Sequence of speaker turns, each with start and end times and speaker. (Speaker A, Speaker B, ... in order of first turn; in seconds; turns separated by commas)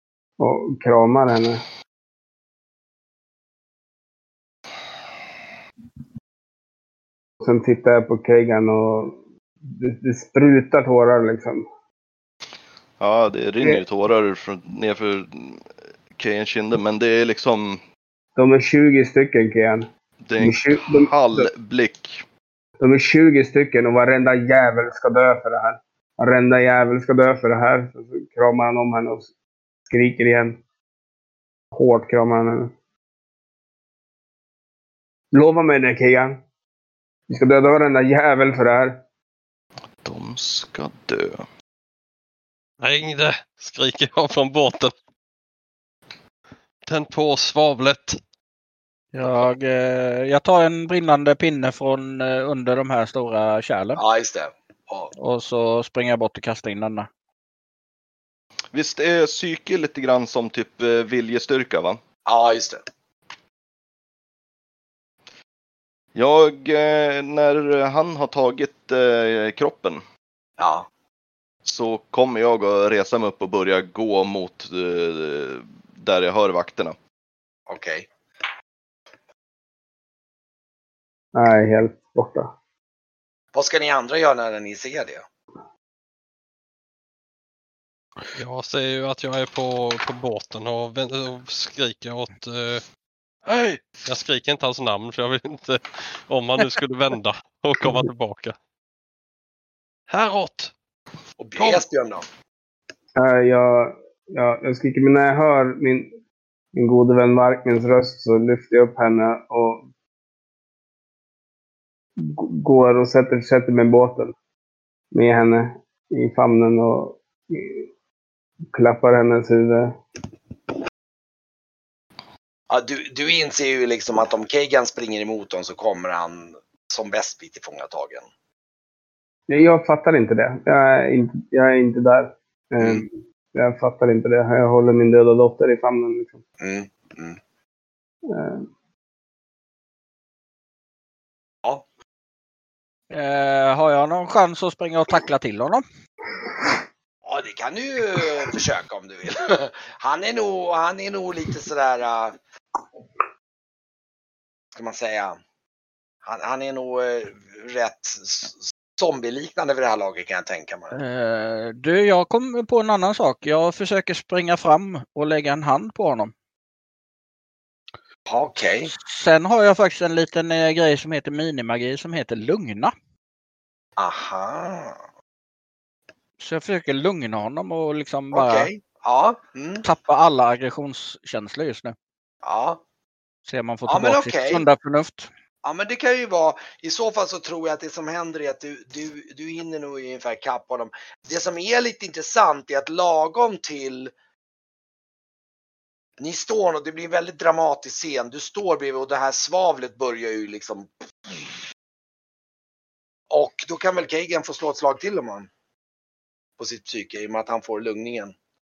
Speaker A: 0.4-1.6, Speaker A: 7.4-11.7, Speaker B: 13.0-17.8, Speaker A: 18.4-21.5, Speaker B: 20.2-22.2, Speaker A: 22.8-29.3, Speaker A: 29.9-30.6, Speaker A: 31.7-32.7, Speaker A: 35.3-36.4, Speaker A: 37.3-39.0, Speaker B: 40.0-41.5, Speaker C: 42.8-44.9, Speaker C: 46.9-48.2, Speaker D: 49.1-54.0, Speaker E: 54.0-55.1, Speaker D: 55.2-57.1, Speaker B: 58.7-62.0, Speaker E: 62.2-62.8, Speaker B: 66.1-70.0, Speaker E: 70.6-70.9, Speaker B: 71.6-77.0, Speaker E: 77.7-78.1, Speaker A: 81.3-82.5, Speaker E: 83.5-85.2, Speaker C: 88.3-92.8, Speaker C: 93.5-98.5, Speaker C: 100.1-100.7, Speaker E: 101.4-102.2, Speaker A: 103.2-106.1, Speaker A: 106.7-109.9, Speaker A: 112.2-114.3, Speaker A: 115.1-117.8, Speaker A: 118.7-119.9, Speaker E: 122.7-128.3, Speaker A: 129.5-136.4, Speaker E: 132.8-133.0, Speaker E: 136.6-137.4, Speaker A: 138.3-138.7, Speaker D: 143.1-145.8, Speaker E: 147.2-152.4, Speaker E: 154.7-155.4, Speaker E: 156.2-160.9, Speaker D: 160.9-166.3, Speaker E: 168.3-168.9, Speaker D: 169.0-172.9, Speaker E: 174.0-175.0, Speaker D: 176.4-178.7, Speaker E: 178.3-179.8, Speaker D: 179.8-181.9, Speaker E: 182.4-182.8, Speaker D: 183.4-185.3, Speaker E: 183.9-184.7, Speaker E: 185.6-194.1, Speaker E: 196.2-201.5, Speaker E: 203.3-205.5, Speaker E: 206.6-208.3